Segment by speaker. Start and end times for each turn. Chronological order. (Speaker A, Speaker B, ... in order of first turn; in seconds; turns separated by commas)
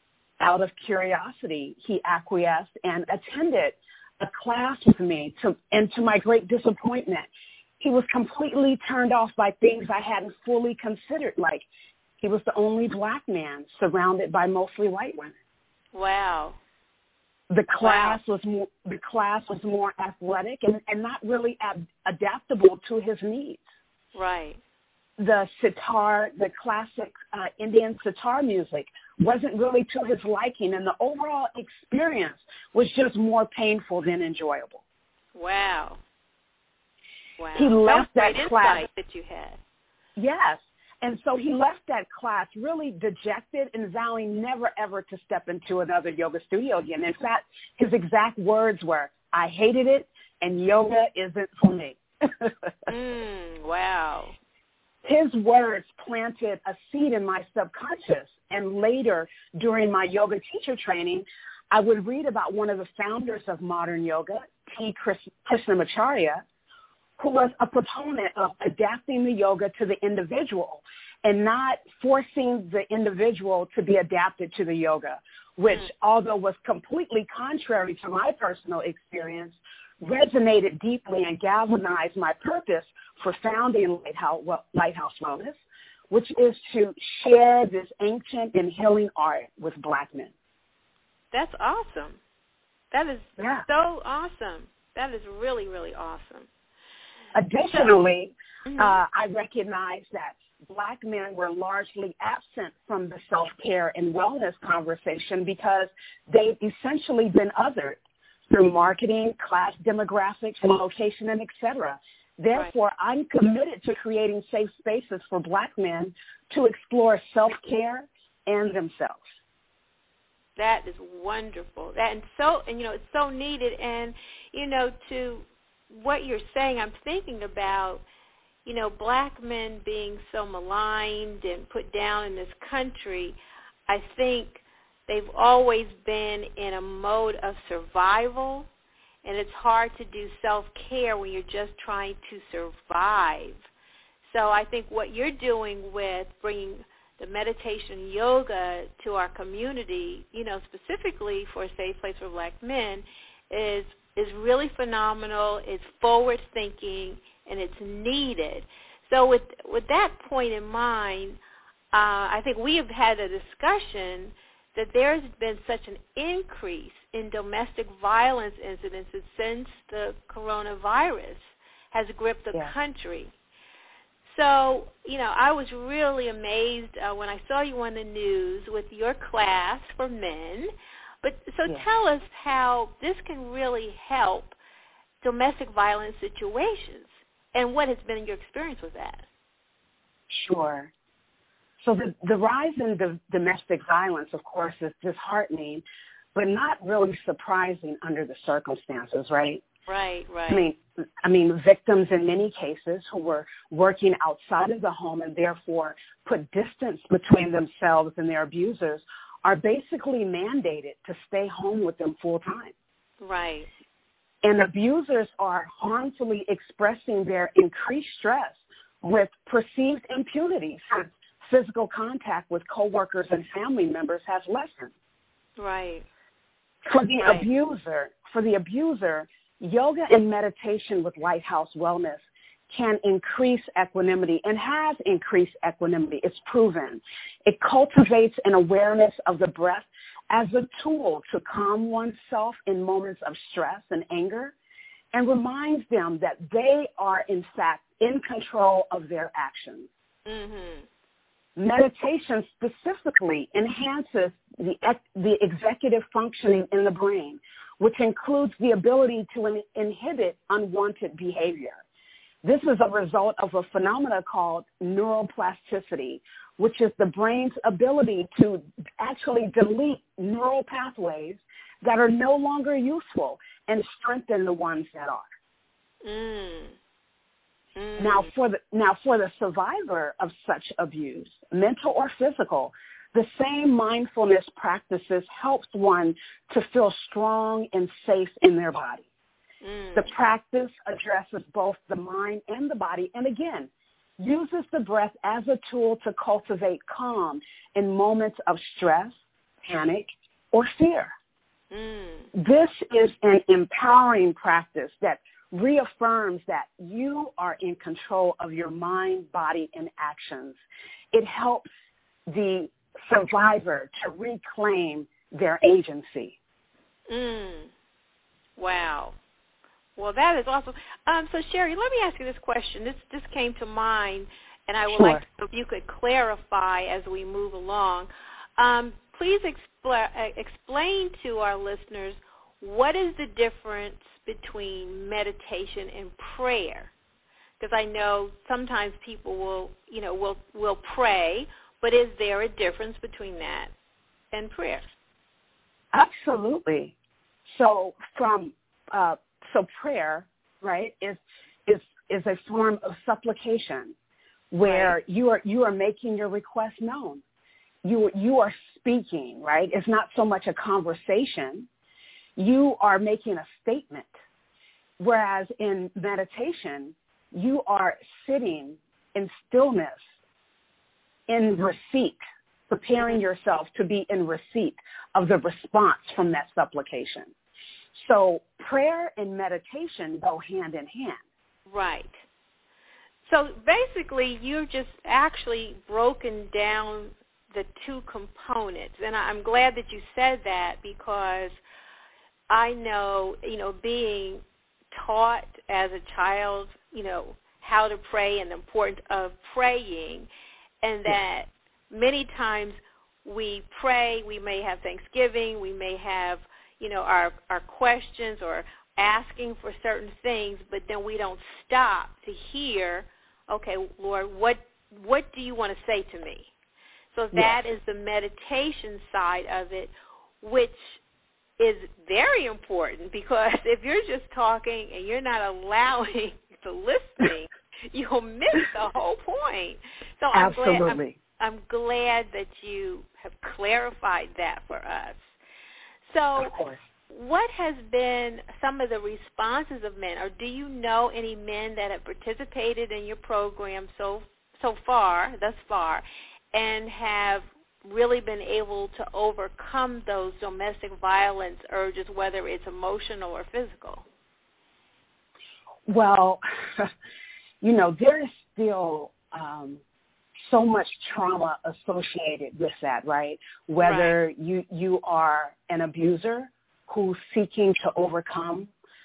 Speaker A: 0.4-7.3, Speaker A: 7.8-11.7, Speaker A: 12.2-15.3, Speaker B: 15.9-16.6, Speaker A: 17.5-23.6, Speaker B: 17.8-18.2, Speaker B: 24.1-24.6, Speaker A: 25.2-34.8, Speaker B: 35.4-36.0, Speaker B: 37.4-39.6, Speaker A: 37.5-38.9, Speaker A: 40.2-52.7, Speaker B: 52.9-54.4, Speaker A: 55.0-66.4, Speaker A: 67.2-85.6, Speaker A: 86.1-90.3, Speaker B: 91.3-92.2, Speaker B: 92.9-96.5, Speaker A: 93.4-93.7, Speaker A: 97.3-108.0, Speaker B: 98.7-99.0, Speaker A: 108.5-119.2, Speaker B: 120.6-128.0, Speaker B: 128.7-133.4, Speaker B: 133.9-138.7, Speaker B: 139.2-143.6, Speaker B: 144.2-161.4, Speaker B: 161.9-173.3, Speaker B: 174.3-180.7, Speaker B: 181.2-184.6, Speaker B: 185.2-189.2, Speaker A: 190.3-190.9, Speaker A: 191.8-195.8, Speaker A: 196.3-199.6, Speaker B: 199.9-200.7, Speaker A: 200.5-212.7, Speaker B: 213.2-213.7, Speaker A: 214.4-224.9, Speaker B: 225.6-226.1, Speaker A: 226.9-244.5, Speaker A: 245.1-249.9, Speaker B: 250.3-250.9, Speaker A: 251.6-261.8, Speaker A: 262.4-275.2, Speaker B: 276.0-276.8, Speaker B: 277.8-278.3, Speaker A: 278.0-289.1, Speaker B: 289.6-290.1, Speaker A: 289.9-301.1, Speaker B: 301.7-302.3, Speaker A: 302.3-310.6, Speaker A: 311.1-311.7, Speaker A: 312.3-316.4, Speaker B: 317.1-317.7, Speaker B: 318.6-319.2, Speaker B: 320.0-336.9, Speaker A: 324.9-325.2, Speaker B: 337.6-343.7, Speaker B: 344.3-344.9, Speaker A: 345.9-346.9, Speaker A: 347.5-353.9, Speaker A: 354.5-357.2, Speaker B: 354.6-354.9, Speaker A: 357.8-361.7, Speaker A: 362.4-364.1, Speaker A: 365.0-370.0, Speaker A: 371.3-377.3, Speaker A: 378.0-381.2, Speaker B: 381.7-382.2, Speaker B: 383.3-391.6, Speaker B: 392.5-394.4, Speaker B: 394.9-400.3, Speaker B: 400.8-416.5, Speaker B: 417.1-421.0, Speaker A: 417.3-417.6, Speaker B: 421.6-435.2, Speaker A: 430.3-431.2, Speaker B: 436.1-436.5, Speaker A: 436.4-436.8, Speaker B: 437.1-454.1, Speaker A: 455.9-456.9, Speaker A: 457.6-459.8, Speaker A: 460.5-468.7, Speaker B: 463.8-464.2